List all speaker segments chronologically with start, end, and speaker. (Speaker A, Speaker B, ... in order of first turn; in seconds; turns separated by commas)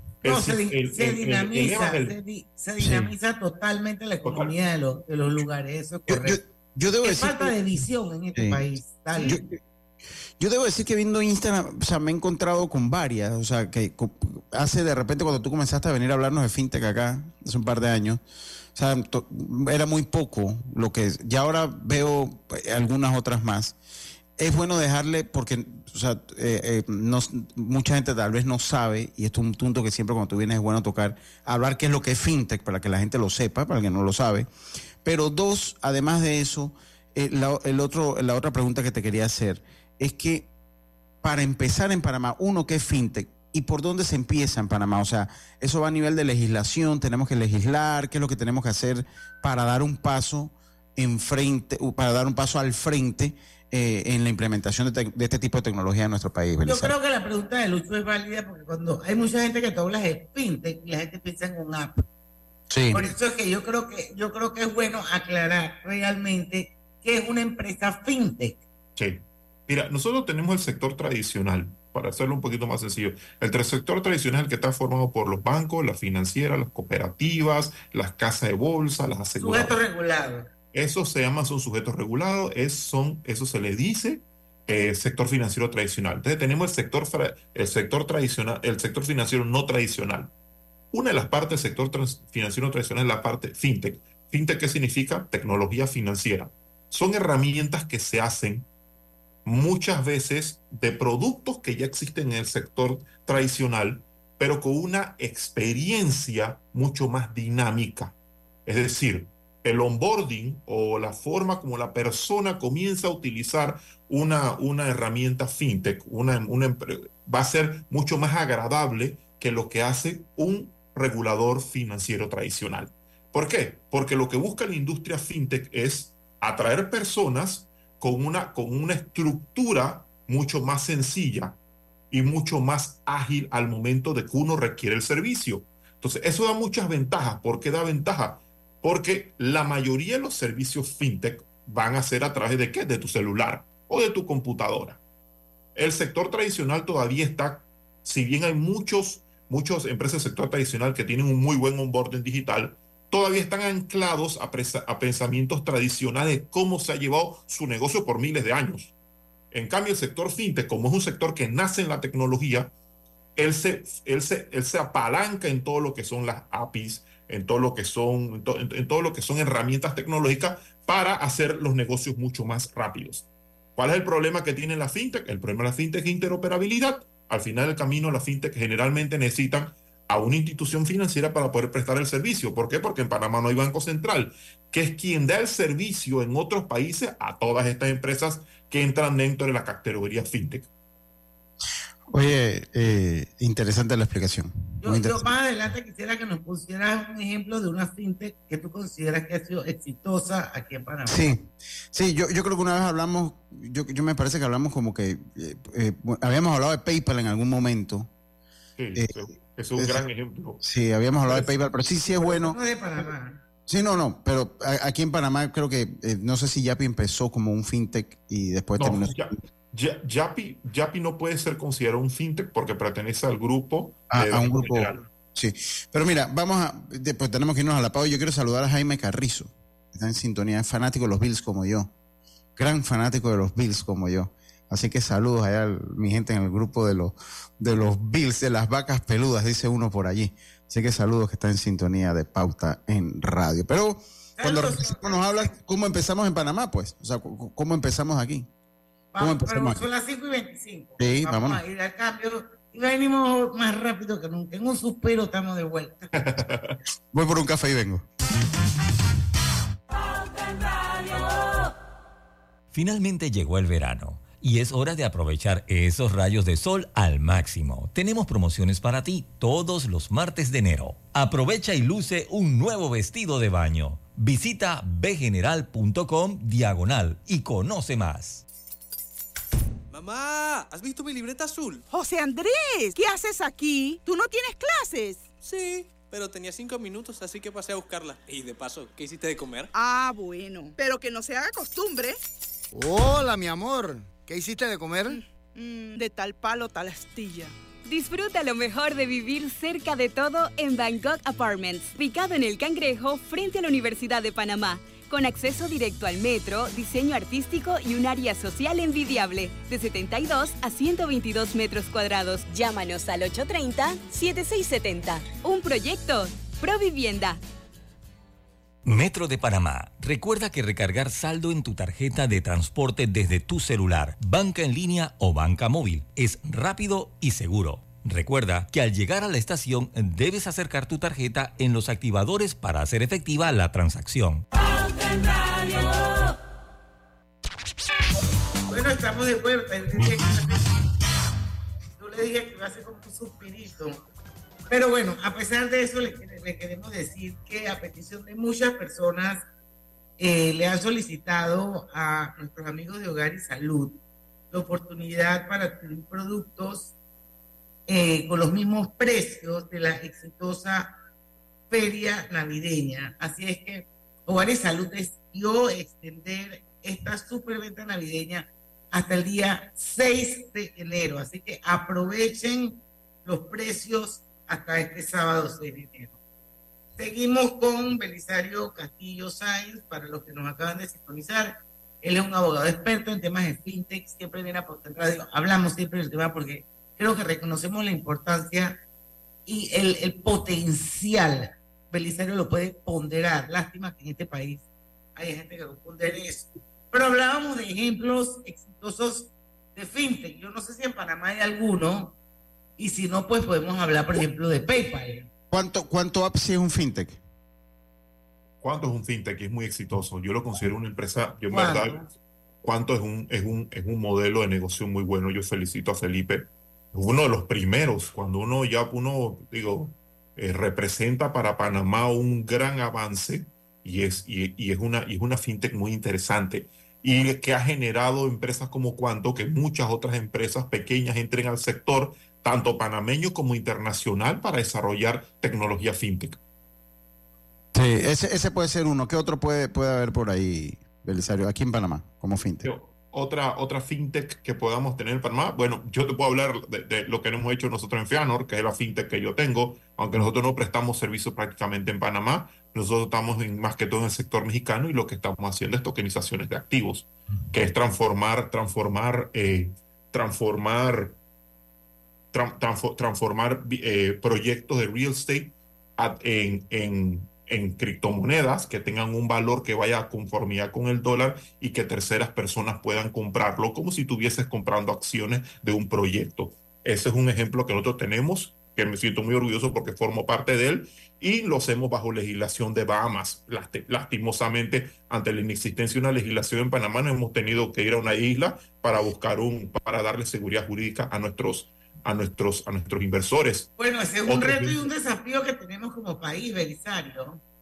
Speaker A: 0.2-2.1, Speaker B: 0.2-6.4, Speaker C: 2.8-3.1, Speaker A: 4.2-4.5, Speaker C: 6.1-7.5, Speaker B: 7.0-9.4, Speaker C: 8.3-9.6, Speaker C: 10.4-18.2, Speaker C: 18.7-23.8, Speaker C: 24.4-34.5, Speaker C: 35.0-40.5, Speaker C: 41.2-56.9, Speaker B: 56.6-62.0, Speaker C: 62.7-63.1, Speaker B: 62.9-68.6, Speaker A: 69.0-79.8, Speaker B: 79.4-80.5, Speaker A: 80.7-90.3, Speaker A: 90.9-98.7, Speaker A: 99.4-108.1, Speaker A: 108.7-131.6, Speaker A: 132.1-145.0, Speaker A: 145.7-158.9, Speaker A: 159.5-162.7, Speaker A: 163.3-190.7, Speaker C: 192.1-195.3, Speaker B: 194.8-201.3, Speaker C: 201.1-208.1, Speaker A: 208.8-210.6, Speaker C: 209.8-210.0, Speaker C: 210.6-212.6, Speaker B: 212.1-213.4, Speaker C: 213.7-219.3, Speaker A: 218.8-225.1, Speaker C: 224.1-231.9, Speaker C: 232.6-248.5, Speaker B: 244.4-245.6, Speaker B: 249.1-256.1, Speaker C: 249.2-249.8, Speaker C: 251.0-251.6, Speaker A: 256.1-256.8, Speaker C: 257.1-258.0, Speaker D: 262.7-278.4, Speaker E: 279.9-281.9, Speaker F: 281.9-285.3, Speaker E: 285.4-289.7, Speaker F: 289.7-292.2, Speaker G: 292.7-295.2, Speaker F: 295.1-297.5, Speaker H: 297.8-317.4, Speaker D: 318.8-334.4, Speaker B: 338.7-340.8, Speaker B: 342.0-344.0, Speaker B: 344.7-349.4, Speaker B: 350.2-354.0, Speaker B: 354.5-356.9, Speaker B: 357.9-360.9, Speaker B: 361.7-376.1, Speaker B: 377.0-388.8, Speaker B: 389.4-394.6, Speaker B: 395.1-402.1, Speaker B: 402.8-405.3, Speaker C: 405.5-407.2, Speaker A: 408.6-412.0, Speaker B: 411.5-412.1, Speaker A: 412.6-436.4, Speaker C: 437.7-442.7, Speaker A: 442.6-461.2, Speaker A: 462.3-493.7, Speaker B: 493.8-497.4, Speaker A: 494.2-494.9